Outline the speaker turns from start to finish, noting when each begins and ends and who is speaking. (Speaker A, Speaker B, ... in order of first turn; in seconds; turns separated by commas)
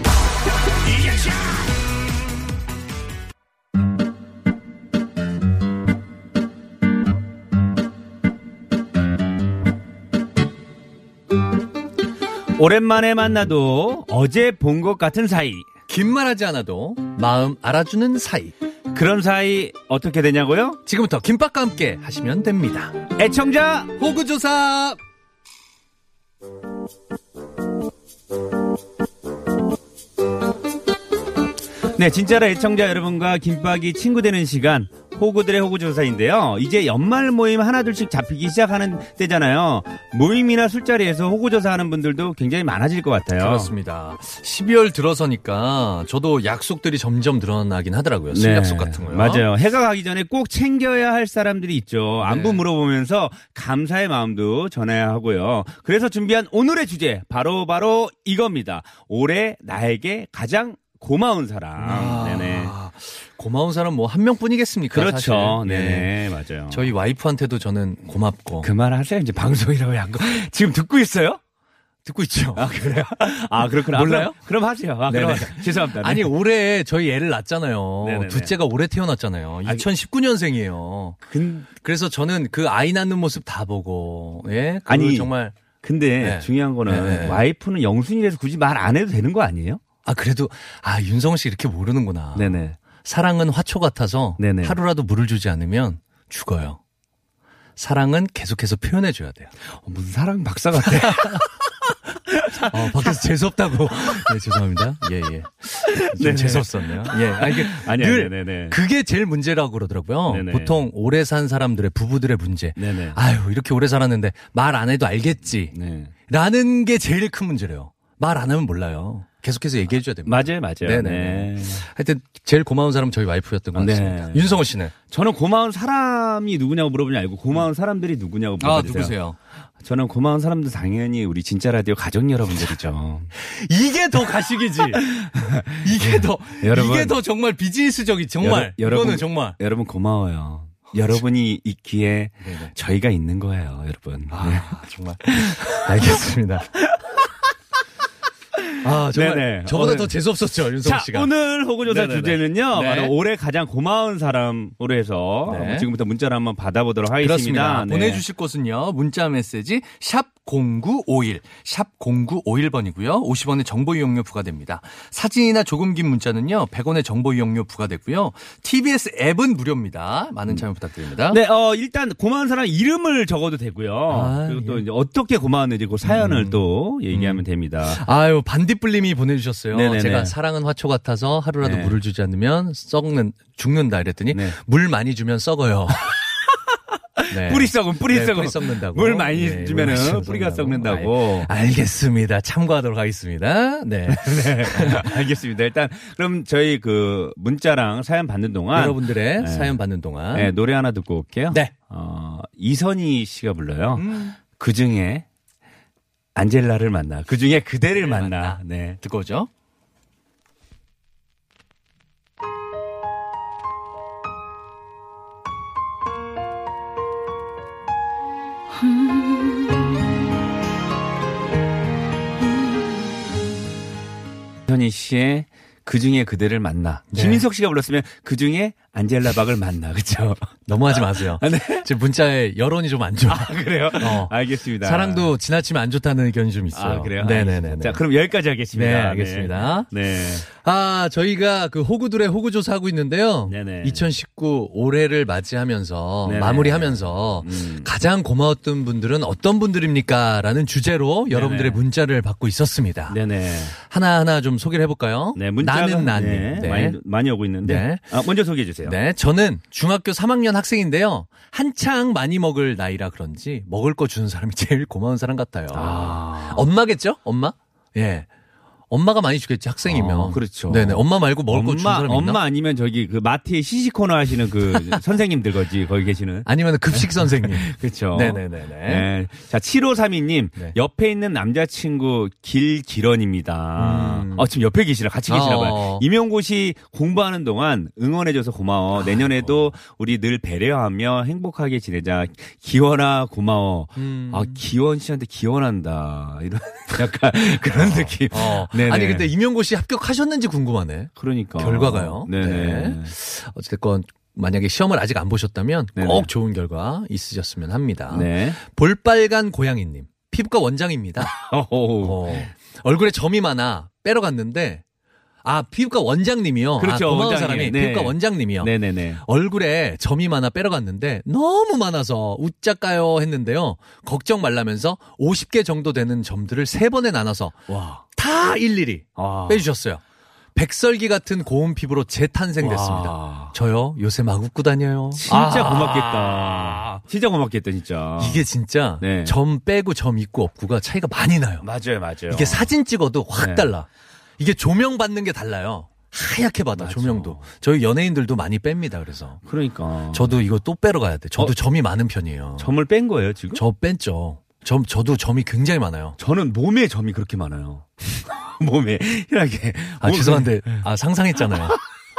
Speaker A: 12.5-15.7, Speaker B: 15.9-18.5, Speaker A: 18.9-20.8, Speaker B: 20.9-23.0, Speaker A: 23.2-23.9, Speaker B: 23.9-25.0, Speaker A: 31.9-43.7, Speaker B: 43.4-49.5, Speaker A: 48.3-62.7, Speaker B: 52.2-52.6, Speaker B: 61.8-66.1, Speaker A: 64.9-66.9, Speaker B: 66.7-68.7, Speaker A: 68.6-71.4, Speaker B: 72.0-72.8, Speaker A: 72.5-76.3, Speaker B: 73.6-74.4, Speaker B: 75.1-81.2, Speaker A: 78.0-78.5, Speaker A: 81.3-81.7, Speaker B: 81.7-85.6, Speaker A: 84.9-89.8, Speaker B: 86.2-87.4, Speaker B: 90.0-96.8, Speaker A: 92.3-92.8, Speaker A: 94.4-94.8, Speaker B: 97.8-99.5, Speaker A: 99.7-101.4, Speaker B: 100.8-101.6, Speaker A: 102.3-103.2, Speaker B: 102.7-115.7, Speaker A: 105.8-108.8, Speaker A: 110.3-110.8, Speaker A: 112.8-113.2, Speaker A: 115.7-116.1, Speaker B: 116.3-124.9, Speaker A: 120.2-121.8, Speaker A: 123.7-129.1, Speaker B: 128.6-129.4, Speaker A: 129.8-133.3, Speaker B: 133.4-135.0, Speaker A: 135.0-137.2, Speaker B: 135.8-139.6, Speaker A: 138.4-146.2, Speaker B: 142.4-142.7, Speaker B: 144.3-146.7, Speaker B: 148.8-151.3, Speaker A: 149.1-150.1, Speaker A: 150.8-158.2, Speaker B: 151.8-153.1, Speaker B: 155.4-155.9, Speaker B: 157.2-171.4, Speaker A: 171.3-178.0, Speaker B: 174.1-174.8, Speaker B: 176.0-186.0, Speaker A: 179.7-180.3, Speaker A: 181.6-182.0, Speaker A: 187.2-191.5, Speaker B: 187.3-195.2, Speaker A: 194.1-199.8, Speaker B: 198.7-200.5, Speaker A: 200.3-205.2, Speaker B: 203.9-204.4, Speaker A: 206.3-209.0, Speaker B: 207.9-209.5, Speaker A: 224.7-231.9, Speaker B: 227.1-227.4, Speaker B: 230.7-238.0, Speaker A: 233.3-235.3, Speaker A: 236.7-240.4, Speaker B: 238.7-239.9, Speaker B: 240.4-253.2, Speaker A: 243.5-244.1, Speaker A: 246.2-247.9, Speaker A: 251.3-251.8, Speaker A: 253.1-253.8, Speaker B: 253.8-257.0, Speaker A: 255.3-259.0, Speaker B: 257.6-258.1, Speaker B: 258.8-268.3, Speaker A: 265.7-266.6, Speaker B: 268.9-272.4, Speaker A: 269.9-299.3, Speaker B: 274.7-275.0, Speaker B: 276.4-279.1, Speaker B: 283.8-284.5, Speaker B: 285.3-286.0, Speaker B: 289.0-289.7, Speaker B: 293.9-294.6, Speaker B: 297.6-311.3, Speaker A: 301.2-303.1, Speaker A: 305.9-306.3, Speaker A: 308.1-308.6, Speaker A: 311.3-312.5, Speaker B: 312.0-314.8, Speaker B: 315.4-330.0, Speaker A: 316.8-319.2, Speaker A: 327.7-328.0, Speaker A: 329.2-329.6, Speaker B: 330.5-336.9, Speaker A: 332.6-333.5, Speaker A: 335.1-338.4, Speaker B: 338.2-341.7, Speaker A: 339.0-339.4, Speaker A: 341.6-342.7, Speaker B: 342.3-343.9, Speaker A: 343.4-343.7, Speaker B: 344.4-349.4, Speaker A: 346.8-347.4, Speaker A: 349.4-350.4, Speaker B: 350.1-352.7, Speaker A: 352.6-353.6, Speaker B: 353.5-356.1, Speaker A: 356.2-360.8, Speaker B: 360.0-361.8